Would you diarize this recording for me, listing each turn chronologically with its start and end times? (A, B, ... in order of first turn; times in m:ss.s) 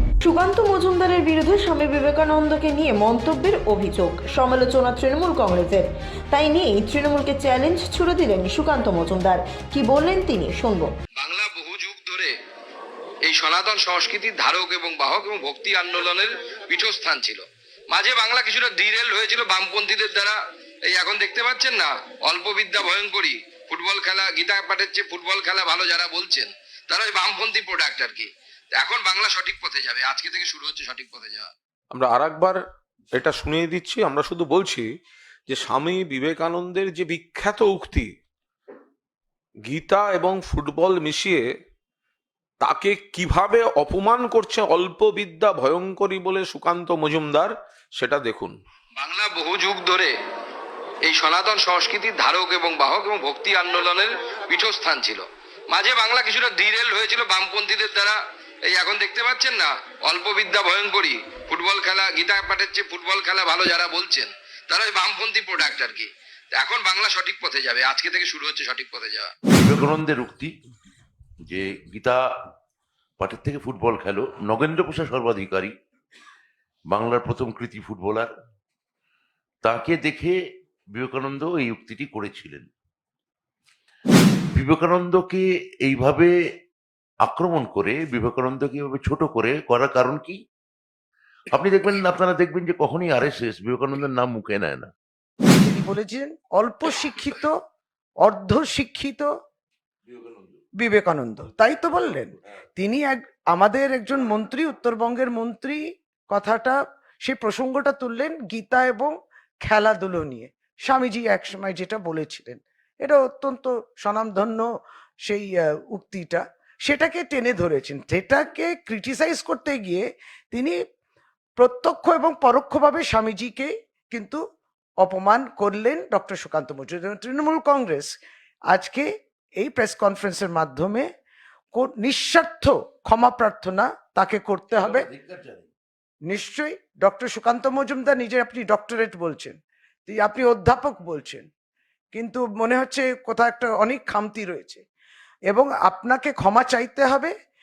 0:00.2-0:10.9 A
0:11.2-0:12.3 B
0:13.3-0:20.4 B
0:20.9-0:31.5 B
0:31.9-0:32.6 C
0:33.1-0:34.8 C
0:35.5-0:38.1 C
0:39.7-0:41.4 C
0:42.6-0:48.6 C
0:49.0-0:50.1 B
0:51.0-1:09.3 B
1:09.6-1:10.5 D
1:11.5-1:12.2 D
1:13.2-1:15.7 D
1:16.9-1:18.3 D
1:19.6-1:20.4 D
1:20.9-1:22.7 D
1:24.5-1:26.3 D
1:27.2-1:30.4 D
1:31.5-1:34.9 D
1:35.6-1:37.6 E
1:38.2-1:39.3 E
1:40.8-1:54.7 E
1:55.2-2:00.8 E
2:01.6-2:04.4 E
2:05.0-2:08.1 E
2:08.7-2:09.1 E
2:09.6-2:11.1 E
2:11.7-2:15.1 E
2:14.9-2:15.7 D
2:16.3-2:21.5 E
2:22.1-2:24.8 E
2:25.5-2:27.3 E